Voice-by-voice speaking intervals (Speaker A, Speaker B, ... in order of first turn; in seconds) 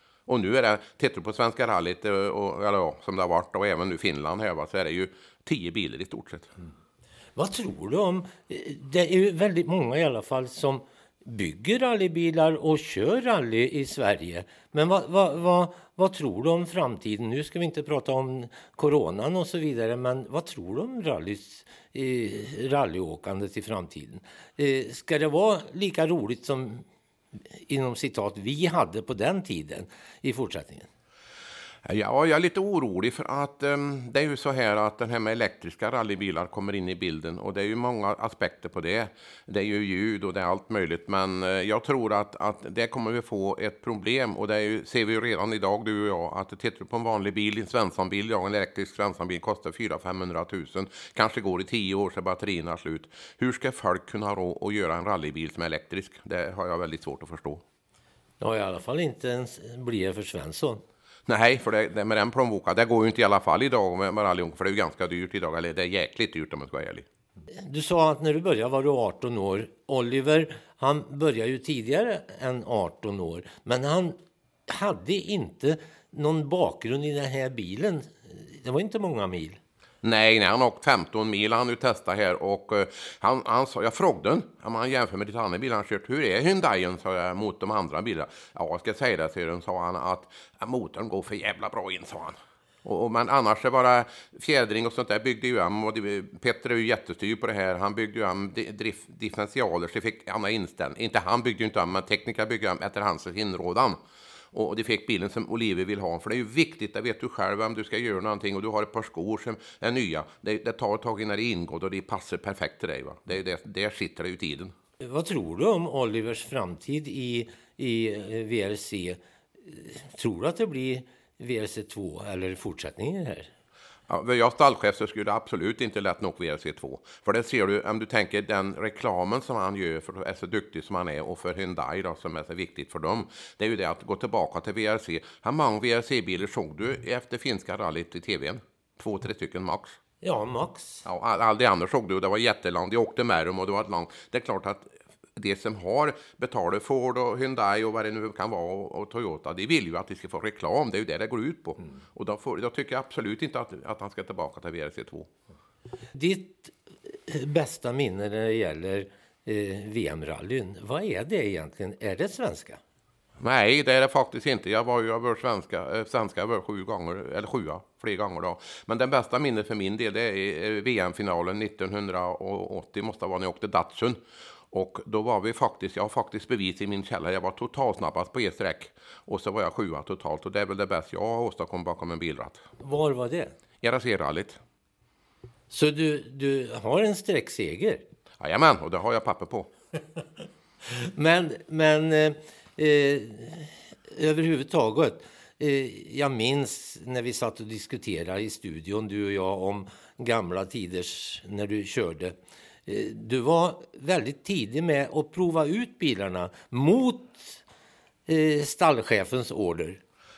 Speaker A: 0.3-6.5, 31.9-57.6, 61.3-67.0, 80.0-104.0, 104.5-114.7, 124.1-140.0, 141.0-155.3, 163.4-174.2, 174.7-182.6, 183.8-184.6, 188.4-189.7
Speaker B: 7.4-26.8, 27.5-30.9, 58.4-60.8, 67.6-74.2, 74.7-79.6, 115.0-123.5, 140.2-141.0, 156.2-162.8, 182.8-183.5, 185.7-188.0, 190.9-202.3, 202.8-207.6, 208.3-210.0